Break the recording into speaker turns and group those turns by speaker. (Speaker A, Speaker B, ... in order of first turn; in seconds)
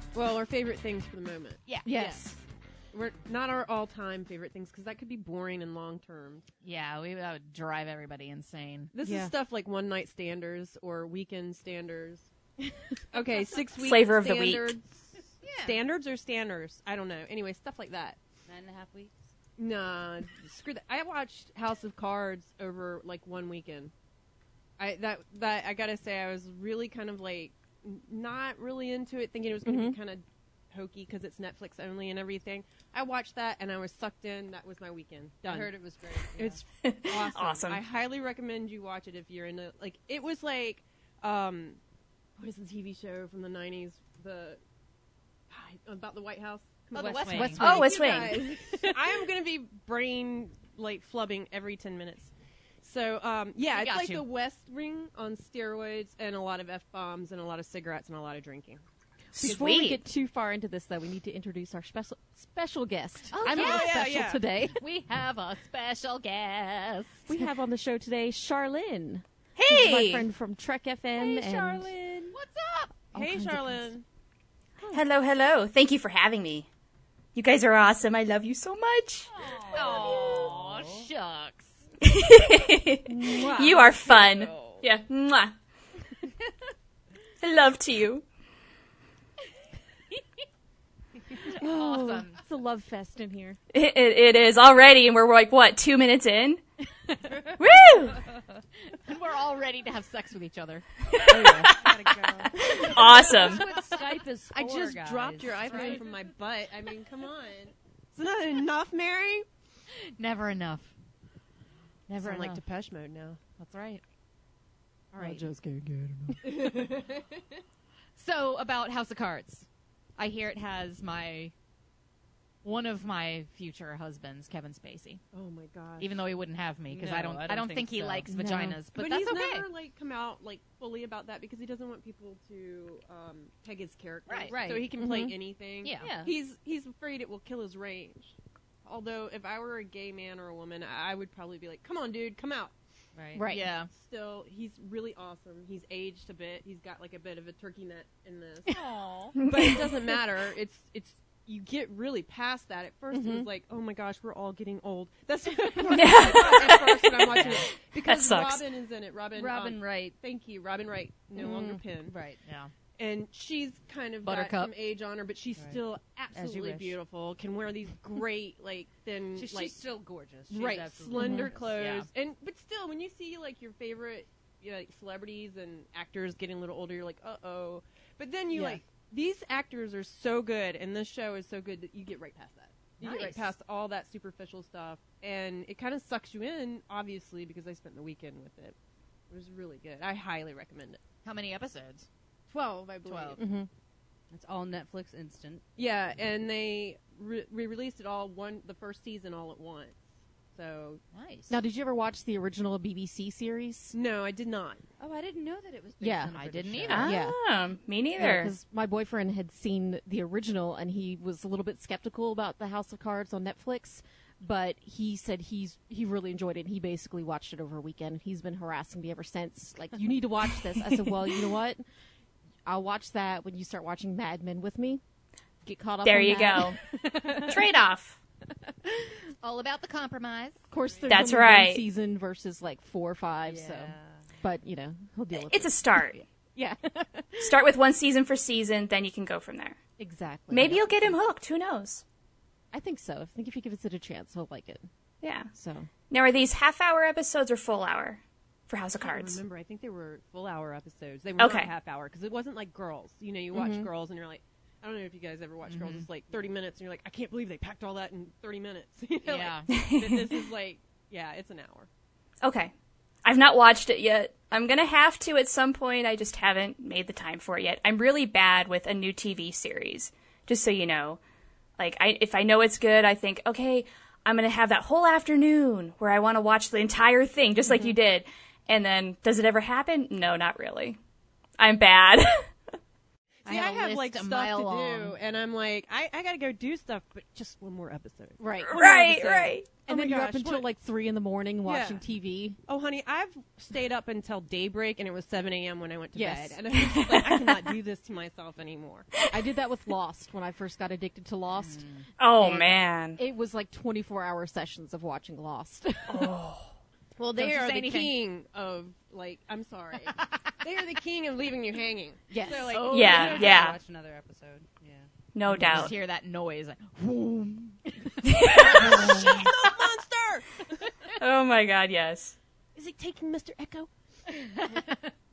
Speaker A: 0.1-1.6, 2.9-6.5, 8.9-12.3, 13.1-14.9, 15.6-18.2, 19.6-23.9, 24.8-35.7, 36.4-41.8, 42.4-44.6, 45.5-52.3, 52.8-58.8, 63.5-64.4, 73.1-74.0, 83.2-84.3, 101.3-103.8, 104.5-109.5, 112.2-113.4, 125.3-126.1, 128.9-142.7, 143.9-148.7, 149.4-162.1, 163.0-169.8, 170.5-188.7, 189.3-191.0, 192.5-193.4, 195.8-200.0, 200.5-201.0, 203.9-204.8, 248.9-261.9, 283.4-290.7, 291.6-292.0, 292.7-299.1, 307.2-313.4, 318.5-320.6, 322.8-323.9
Speaker B: 1.7-2.4, 6.6-8.9, 15.4-15.8, 46.9-47.6, 53.7-54.2, 63.3-67.3, 72.3-72.9, 79.5-81.7, 91.5-92.4, 99.0-104.9, 105.6-106.1, 110.2-110.9, 112.1-112.6, 113.6-114.0, 115.2-115.5, 118.2-121.5, 122.6-125.2, 126.0-129.7, 134.3-134.6, 135.8-136.3, 143.4-143.9, 148.7-149.3, 162.4-162.7, 164.2-164.7, 171.2-172.1, 178.5-178.8, 183.0-183.5, 191.2-192.1, 193.0-193.4, 201.1-201.6, 206.3-207.2, 229.4-230.6, 255.7-256.0, 259.2-259.7, 283.4-285.2, 301.6-302.0, 307.3-308.1, 312.3-313.6, 315.5-319.6, 324.4-325.0
Speaker C: 1.8-2.3, 9.0-9.3, 29.6-30.0, 47.4-47.9, 59.4-64.8, 67.3-71.9, 73.1-73.9, 83.1-83.8, 91.5-93.6, 101.2-101.7, 115.1-115.9, 128.3-128.8, 135.0-135.3, 143.3-143.7, 153.1-153.5, 161.3-161.8, 171.2-171.5, 193.4-193.7, 201.5-203.9, 206.0-206.4, 206.9-207.4, 208.2-221.8, 222.7-225.0, 225.6-227.6, 230.7-235.7, 236.6-237.6, 240.0-241.2, 242.7-244.9, 245.5-245.9, 253.5-253.9, 288.4-292.6, 296.1-296.6, 299.3-301.9, 302.4-306.3, 312.3-312.8
Speaker D: 13.8-14.7, 36.8-37.8, 47.4-48.6, 59.4-60.0, 69.5-70.2, 74.9-76.7, 77.3-79.3, 82.0-85.5, 87.4-88.2, 93.7-96.6, 97.4-98.2, 102.7-103.7, 155.9-157.5, 158.0-158.7, 206.9-208.5, 226.0-228.2, 231.1-231.8, 235.3-236.2, 237.4-239.8, 240.5-242.0, 245.2-245.5, 246.1-249.4, 251.4-251.7, 259.7-260.2, 262.4-262.7, 263.2-271.2, 271.8-281.0, 281.6-282.5, 288.7-289.7, 296.8-297.5, 302.2-303.2, 306.1-306.6, 312.9-313.8, 315.3-315.9, 318.2-319.0, 321.2-322.4
Speaker E: 18.5-19.1, 35.4-36.6, 71.2-72.3, 79.9-81.0, 103.6-106.0, 126.9-128.3, 134.5-134.9, 136.0-136.3, 143.2-143.4, 157.3-157.6, 159.3-160.2, 162.0-162.4, 166.3-167.0, 169.3-171.8, 194.3-195.6, 205.0-207.1, 233.4-234.2, 312.5-315.1